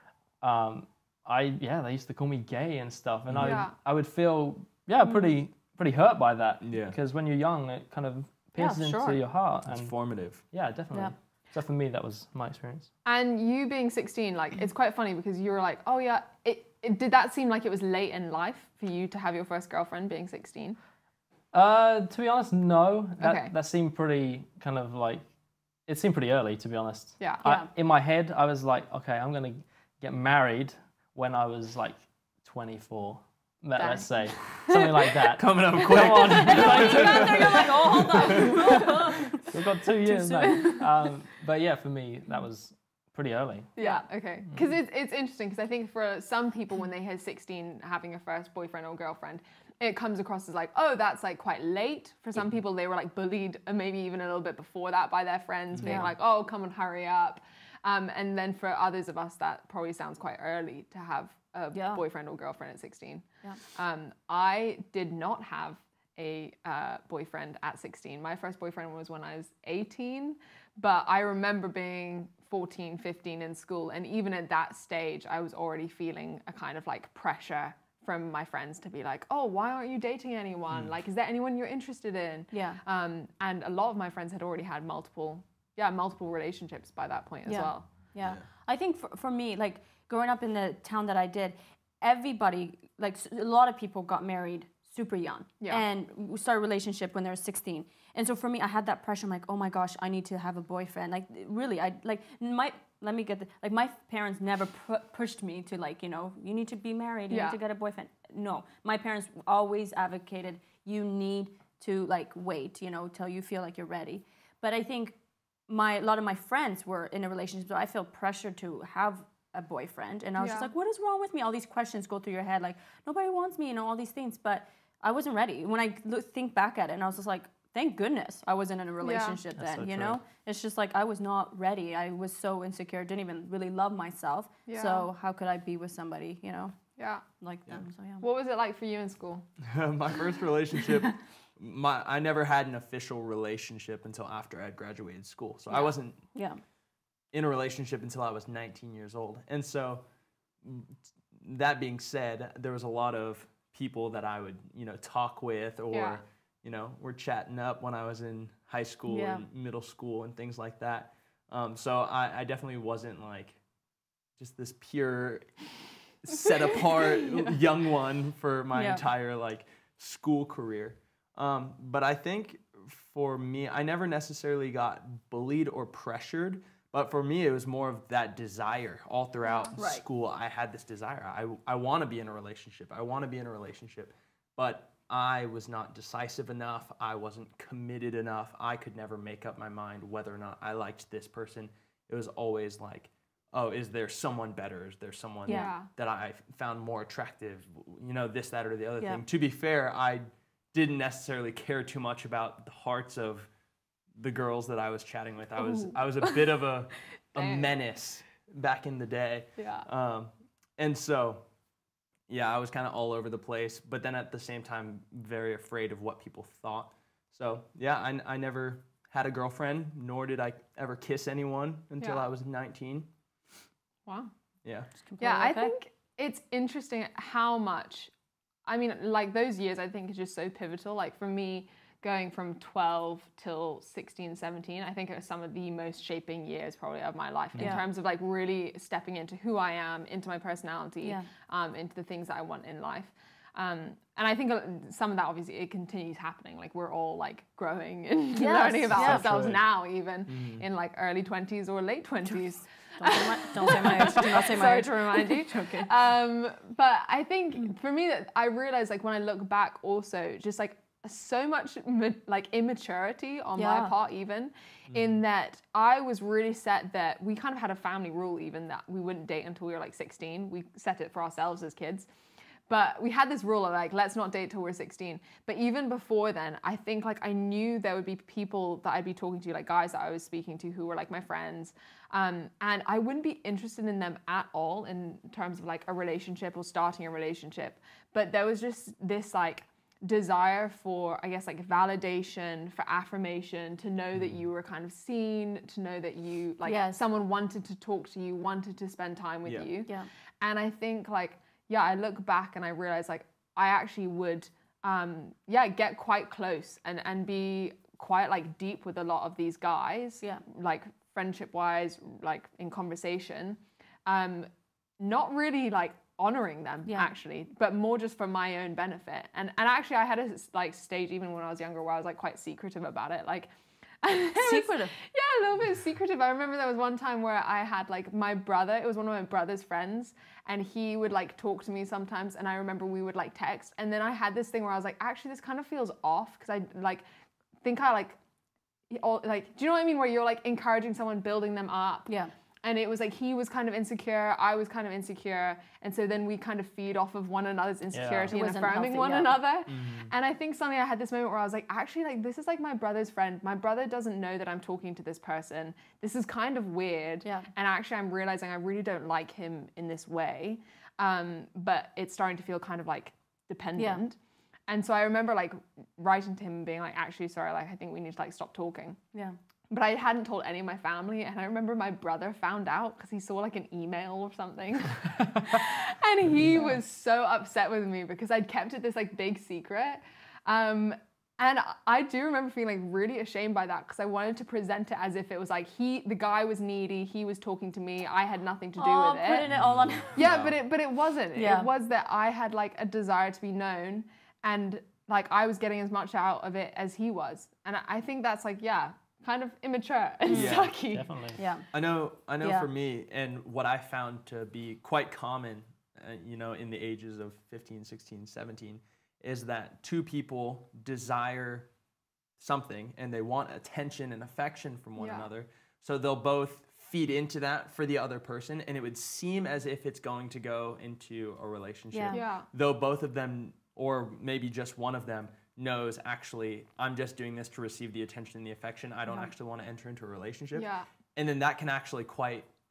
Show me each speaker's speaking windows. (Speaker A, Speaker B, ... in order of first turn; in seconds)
Speaker A: 0.4-12.9, 21.5-25.2, 25.9-37.6, 39.4-43.7, 129.6-130.2, 248.9-249.6, 347.9-348.3, 400.3-401.4
Speaker B: 3.3-3.6, 6.6-7.0, 9.7-10.4, 34.4-38.8, 139.6-146.2, 147.3-150.0, 150.6-163.6, 164.4-165.6, 166.2-203.5, 204.2-211.4, 212.3-223.1, 250.3-250.7, 264.9-265.2, 349.7-350.1, 389.5-390.6, 400.3-400.7, 401.7-411.7, 412.4-432.5
Speaker C: 3.4-3.7, 13.0-20.8, 23.2-23.5, 27.2-27.4, 43.8-87.8, 107.3-107.6, 120.4-120.7, 129.0-129.4, 134.7-135.1, 137.0-137.2, 138.2-139.4, 145.7-145.9, 155.9-156.2, 195.5-195.9, 205.6-206.5, 207.3-207.7, 209.6-209.9, 222.0-222.2, 224.1-224.3, 225.2-228.1, 228.7-272.1, 272.7-314.5, 315.0-323.5, 324.0-337.0, 337.6-338.2, 338.9-342.1, 342.6-364.2, 364.7-369.0, 369.7-389.4, 390.1-401.3, 415.0-415.3, 422.1-422.5, 430.5-430.9
Speaker D: 5.0-5.3, 8.6-9.2, 27.4-27.7, 33.8-34.0, 36.3-39.4, 40.0-41.1, 43.8-44.0, 55.8-56.1, 61.7-62.0, 82.5-82.8, 87.5-115.2, 115.7-136.8, 137.4-138.2, 146.3-146.6, 159.1-159.4, 168.7-169.0, 179.8-180.0, 195.5-195.7, 225.0-225.7, 237.6-237.8, 241.0-241.3, 248.3-249.3, 253.0-255.9, 263.6-263.9, 296.6-297.0, 324.3-324.9, 348.3-349.4, 363.8-364.0, 388.8-390.3, 391.3-391.7, 401.4-401.6, 402.4-402.7, 421.9-422.2